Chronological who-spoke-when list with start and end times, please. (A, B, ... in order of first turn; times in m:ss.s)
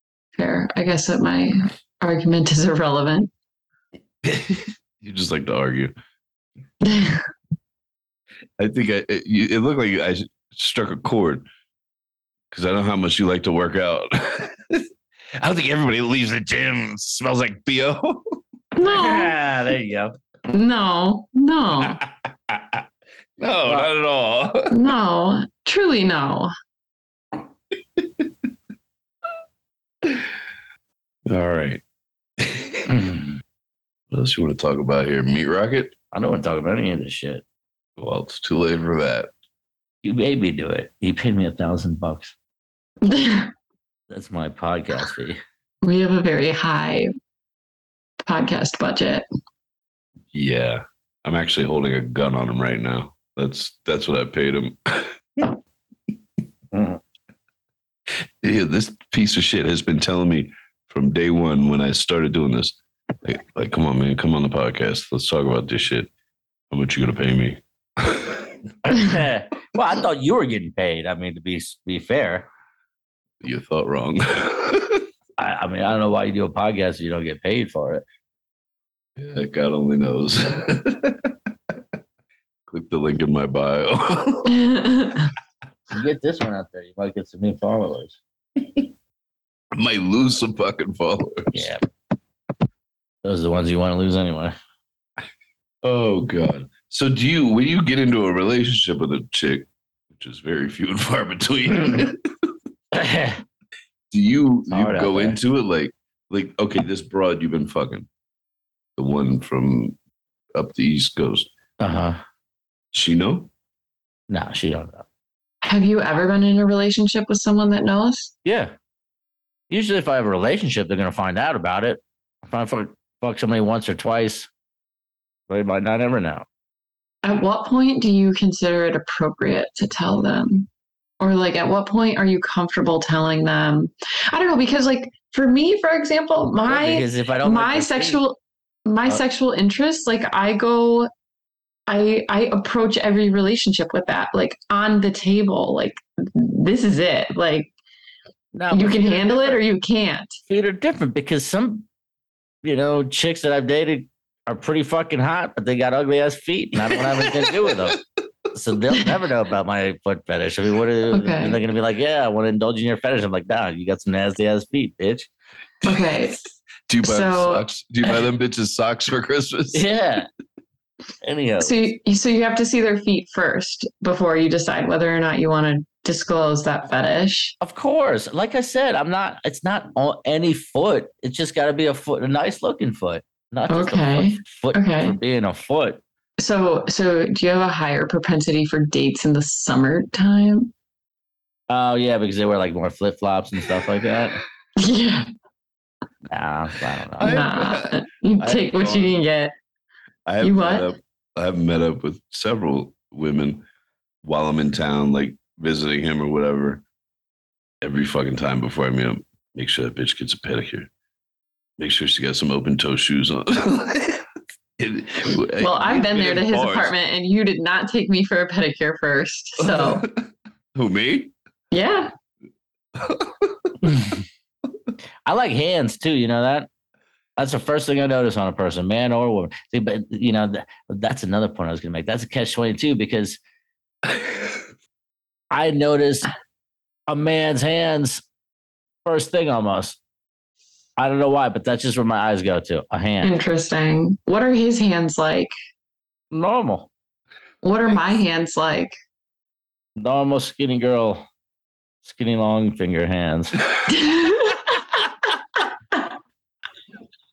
0:00.3-0:03.3 A
0:04.2-0:05.9 B
0:06.8-0:07.2 A
0:08.6-0:11.4 B
0:12.5-0:18.2 B
0:18.8-0:19.3 A
0:18.8-0:20.1 C
0:20.5-0:22.0 A
0:21.8-0:22.8 B
0:23.4-0:24.9 B
0:24.7-0:26.5 A
0:28.0-0:28.3 B
0:30.0-0:30.3 B
0:31.2-0:31.8 B
0:32.4-0:33.1 B
0:32.9-0:33.2 C
0:34.1-0:36.0 B
0:36.1-0:37.4 C
0:38.0-0:39.3 B
0:40.0-0:42.3 C
0:43.0-0:43.5 A
0:44.1-0:45.4 C
0:45.8-0:47.1 A
0:48.2-0:49.2 A
0:50.3-0:55.6 B
0:56.7-0:57.0 C
0:58.4-1:06.1 B
1:06.7-1:08.7 B
1:08.8-1:12.5 C
1:13.4-1:15.1 B
1:15.4-1:18.0 C
1:19.2-1:21.3 B
1:22.7-1:24.7 B
1:24.5-1:25.3 A
1:25.9-1:28.2 C
1:29.7-1:31.7 B
1:31.5-1:31.8 C
1:33.2-1:34.5 C
1:35.8-1:42.2 B
1:42.9-1:43.4 C
1:44.1-1:48.1 B
1:44.7-1:45.4 C
1:49.0-1:50.0 B
1:50.5-1:51.5 B
1:51.8-1:52.2 C
1:52.9-1:53.5 B
1:54.3-1:55.0 C
1:55.6-1:58.3 A
1:58.4-1:58.7 C
1:59.7-2:04.5 C
2:05.5-2:06.4 C
2:07.2-2:10.7 A
2:11.2-2:21.1 A
2:16.6-2:18.2 C
2:21.9-2:27.7 A
2:28.5-2:29.5 C
2:28.7-2:30.4 A
2:30.5-2:31.9 C
2:32.6-2:38.0 C
2:36.9-2:38.0 B
2:38.5-2:45.3 C
2:41.1-2:41.6 A
2:45.8-2:46.1 B
2:45.8-2:46.4 A
2:46.9-2:49.9 B
2:47.0-2:47.7 A
2:49.7-2:50.3 C
2:51.2-2:51.9 C
2:51.6-2:57.5 A
2:57.6-3:06.0 C
3:03.7-3:05.2 A
3:06.4-3:10.7 A
3:11.7-3:14.4 C
3:14.8-3:15.3 A
3:16.3-3:17.4 C
3:17.2-3:19.2 B
3:17.2-3:19.5 A
3:20.2-3:23.6 B
3:20.4-3:20.9 A
3:24.2-3:26.8 B
3:27.8-3:30.9 B
3:31.8-3:34.3 B
3:34.8-3:36.9 B
3:35.6-3:40.1 A
3:39.6-3:41.3 B
3:41.7-3:42.1 A
3:42.9-3:43.8 B
3:43.8-3:44.2 C
3:45.2-3:46.7 C
3:47.4-3:53.4 C
3:54.1-3:54.5 B
3:55.5-3:56.3 C
3:57.1-3:58.2 C
3:59.0-4:00.0 C
4:01.0-4:03.4 C
4:03.2-4:05.5 A
4:06.3-4:06.9 C
4:07.6-4:09.0 A
4:10.0-4:11.2 C
4:12.0-4:13.6 C
4:13.9-4:14.8 A